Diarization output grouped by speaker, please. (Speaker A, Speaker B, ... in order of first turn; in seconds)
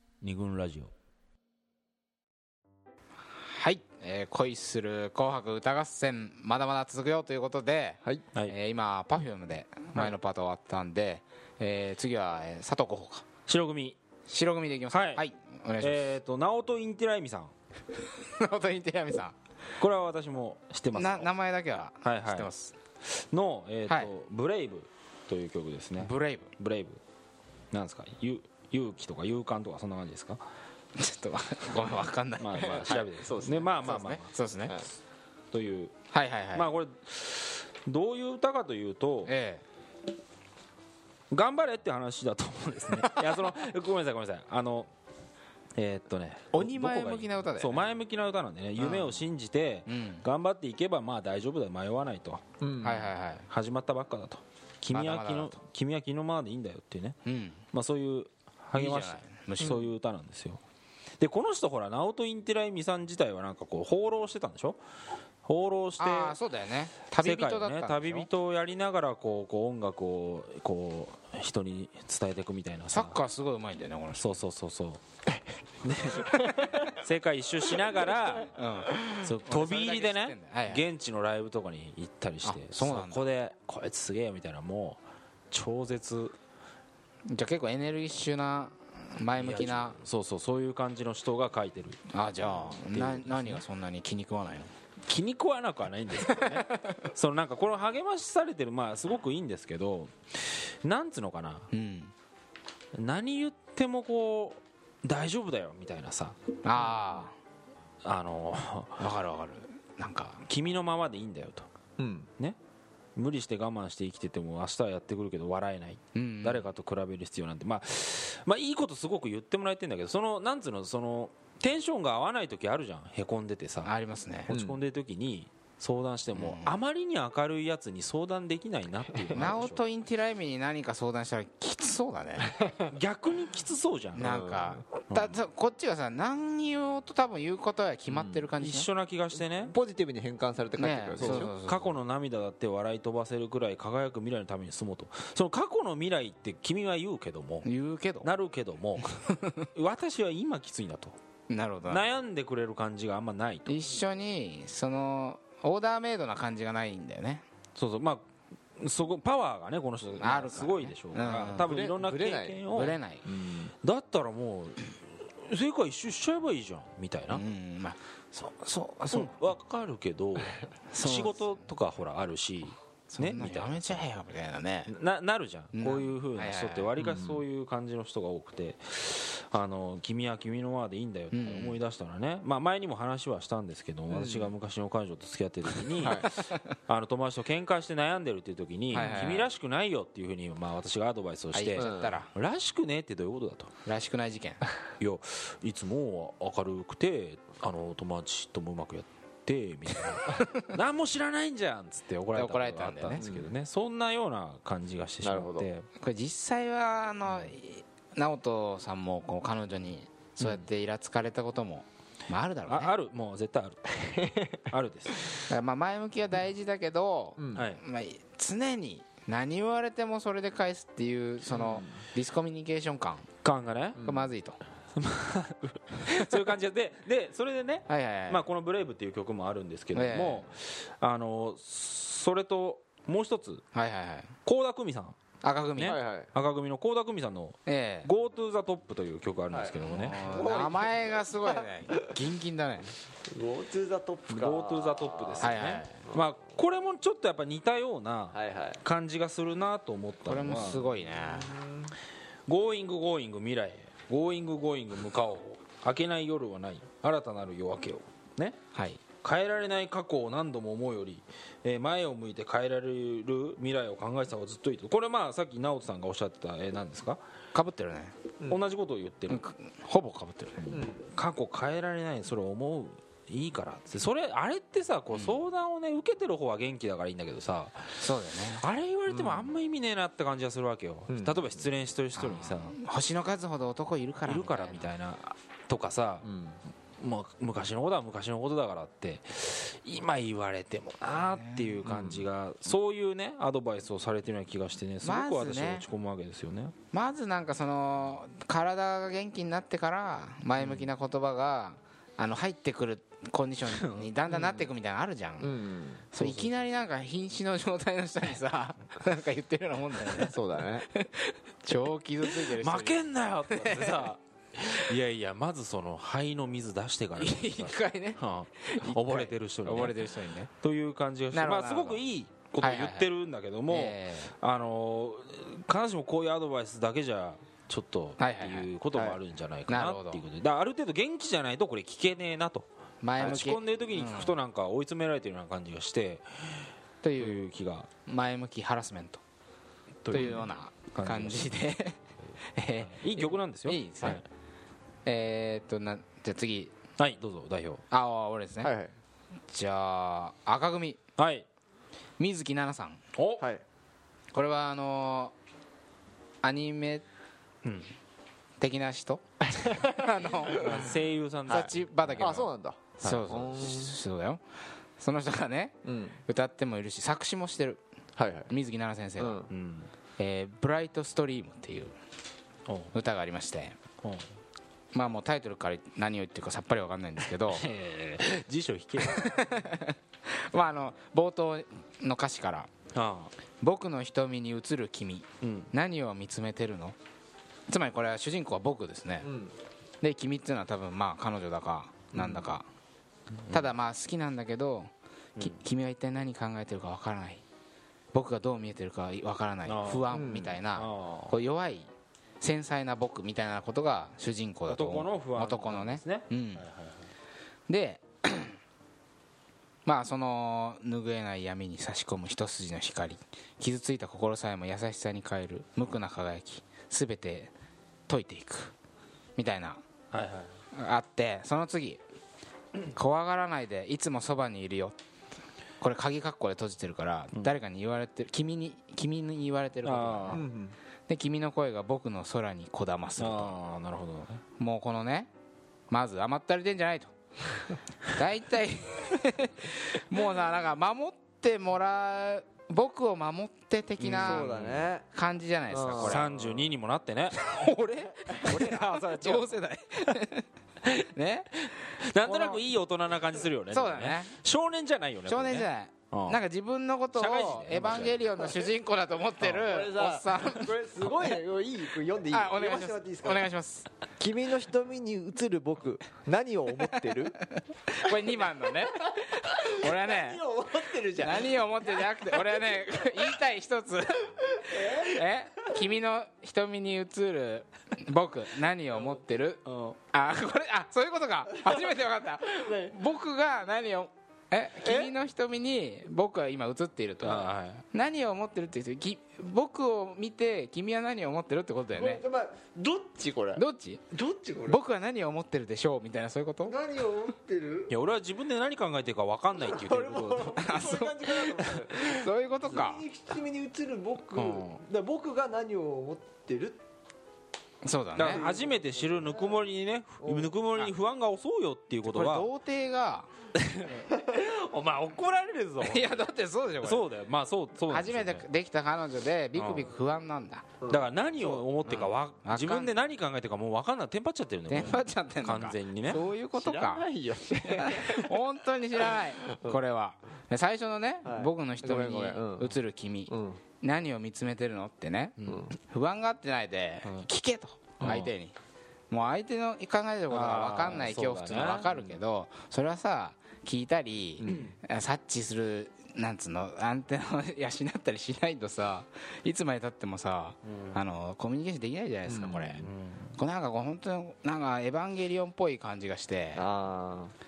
Speaker A: 0.2-0.9, 13.5-14.0, 14.9-15.2, 15.8-17.5, 19.8-21.3, 22.0-22.5, 23.1-27.0, 27.7-30.4, 32.4-34.3, 35.5-36.0, 36.5-39.3, 41.3-44.9, 45.8-52.5, 53.5-57.2, 57.7-60.6, 61.2-64.8, 65.5-66.4, 67.2-73.2, 74.2-75.0, 75.8-78.5, 79.2-85.0, 85.5-86.3, 89.4-92.0, 92.5-93.6, 95.1-101.7, 103.0-106.4, 108.0-109.1, 110.5-111.7, 113.2-123.9, 124.5-129.8, 132.9-134.3, 135.1-135.4, 138.6-139.7, 141.2-147.7, 148.2-149.1, 149.8-151.2, 151.9-153.7, 157.8-158.2, 158.8-163.0, 163.8-167.4, 169.1-174.1, 174.9-193.7, 195.0-205.9, 212.7-214.0, 214.6-215.3, 217.6-217.8, 223.4-224.0, 225.0-233.6, 234.4-235.2, 235.8-240.2, 244.3-250.8, 252.5-258.6, 259.2-267.2, 268.5-269.5, 271.1-282.8, 284.3-286.3, 287.0-296.8, 303.7-304.1, 312.3-320.1, 320.6-332.7, 333.2-336.6, 337.2-337.9, 340.0-341.6, 342.8-344.2, 347.0-347.8, 351.2-351.5, 353.1-353.4, 357.6-357.9, 360.6-362.5, 369.5-369.9, 372.7-372.9, 377.5-379.4, 382.9-383.3, 385.4-385.7, 392.2-392.4, 399.7-400.1, 400.7-401.4, 404.7-407.0, 420.1-420.5, 429.8-430.4, 433.2-434.4, 444.0-444.9, 445.9-447.5, 452.0-456.4, 457.1-458.2, 479.7-479.9, 487.2-487.8, 497.9-500.6, 504.4-504.8, 508.2-512.5, 513.6-516.3, 516.8-518.5, 519.6-519.9, 520.9-526.2, 535.4-535.7, 538.0-538.3, 540.3-542.2, 550.7-551.0, 552.8-553.3
Speaker B: 3.5-13.2, 14.3-16.1, 18.3-19.4, 20.9-22.7, 26.0-26.5, 31.0-34.9, 36.1-36.7, 39.3-39.6, 46.5-47.9, 48.8-49.2, 49.9-50.2, 52.8-53.5, 54.9-55.6, 57.3-57.6, 58.8-59.9, 66.0-68.3, 72.9-74.3, 76.3-76.8, 78.3-80.8, 82.4-83.2, 87.3-90.0, 92.1-94.7, 101.7-102.1, 106.6-107.3, 109.0-110.4, 116.2-116.7, 123.8-124.5, 126.4-126.7, 129.3-132.6, 134.2-138.9, 140.8-141.9, 147.7-148.3, 149.1-149.7, 151.5-152.0, 153.7-157.5, 160.2-161.7, 162.7-163.2, 167.3-169.3, 170.9-171.6, 173.1-174.9, 175.7-176.9, 181.3-181.8, 188.9-189.5, 191.5-192.3, 193.9-194.7, 202.3-203.2, 206.0-212.9, 215.5-223.3, 224.0-224.6, 226.1-226.4, 227.9-228.4, 229.9-230.5, 233.7-234.3, 235.4-236.0, 237.7-238.1, 239.8-242.9, 245.4-246.0, 250.3-251.6, 258.8-259.0, 267.5-268.1, 269.3-270.8, 275.1-275.4, 278.0-278.6, 282.2-284.9, 291.4-291.8, 295.0-295.9, 296.9-305.6, 306.1-310.4, 310.9-314.1, 317.2-320.5, 321.3-322.0, 322.6-323.1, 323.7-324.3, 328.2-328.7, 329.7-330.2, 333.0-334.3, 337.0-337.4, 338.1-339.2, 340.1-342.0, 342.6-344.2, 345.1-346.7, 347.9-348.7, 349.5-351.0, 352.2-353.0, 354.3-355.3, 356.4-357.1, 358.6-362.5, 363.0-364.4, 365.0-367.8, 368.5-369.5, 370.2-371.9, 372.9-373.8, 374.9-377.7, 379.0-382.7, 383.6-387.0, 387.7-389.3, 390.0-392.7, 393.5-397.4, 398.1-401.9, 402.4-406.6, 407.7-408.6, 409.9-417.5, 418.1-418.7, 419.4-419.8, 420.7-422.0, 422.9-424.9, 425.8-430.4, 431.1-433.6, 434.6-435.3, 435.9-437.1, 438.1-444.5, 445.1-446.3, 447.4-452.6, 453.7-454.4, 455.3-460.8, 462.3-463.9, 467.9-470.4, 471.2-492.2, 493.6-494.0, 494.7-496.8, 500.6-503.1, 507.8-508.4, 512.0-513.3, 515.8-517.0, 517.9-520.7, 521.9-522.9, 524.7-527.1, 527.6-538.5, 539.1-556.7
Speaker C: 32.6-33.7, 52.6-53.1, 112.0-112.3, 124.5-124.8, 129.1-129.4, 132.4-132.9, 134.2-134.8, 138.1-138.5, 139.3-141.5, 161.3-162.6, 163.2-163.7, 177.0-177.4, 184.1-184.5, 186.0-186.4, 189.0-189.4, 191.8-192.2, 203.2-203.5, 205.2-205.7, 210.4-210.7, 214.0-214.6, 217.4-217.6, 221.5-222.0, 224.0-224.3, 235.9-236.3, 239.5-242.2, 243.3-246.2, 248.3-248.8, 251.0-251.9, 270.7-271.0, 279.1-279.5, 281.1-281.4, 286.2-286.6, 291.9-292.2, 300.6-300.9, 304.3-304.7, 305.4-306.5, 310.1-310.9, 348.6-348.9, 359.6-360.9, 361.5-363.9, 365.9-366.2, 368.2-368.5, 369.2-369.5, 389.2-389.5, 392.1-392.4, 400.1-400.6, 430.3-430.8, 444.1-445.1, 445.7-446.6, 448.3-449.5, 459.4-463.5, 464.2-467.4, 469.1-471.7, 474.7-475.2, 482.6-483.0, 484.8-485.1, 491.9-494.8, 496.6-497.9, 499.6-506.8, 508.2-509.6, 510.2-510.5, 526.5-528.4, 529.0-529.8, 531.2-532.8, 533.3-533.6, 544.4-544.7, 552.3-552.8, 556.5-557.3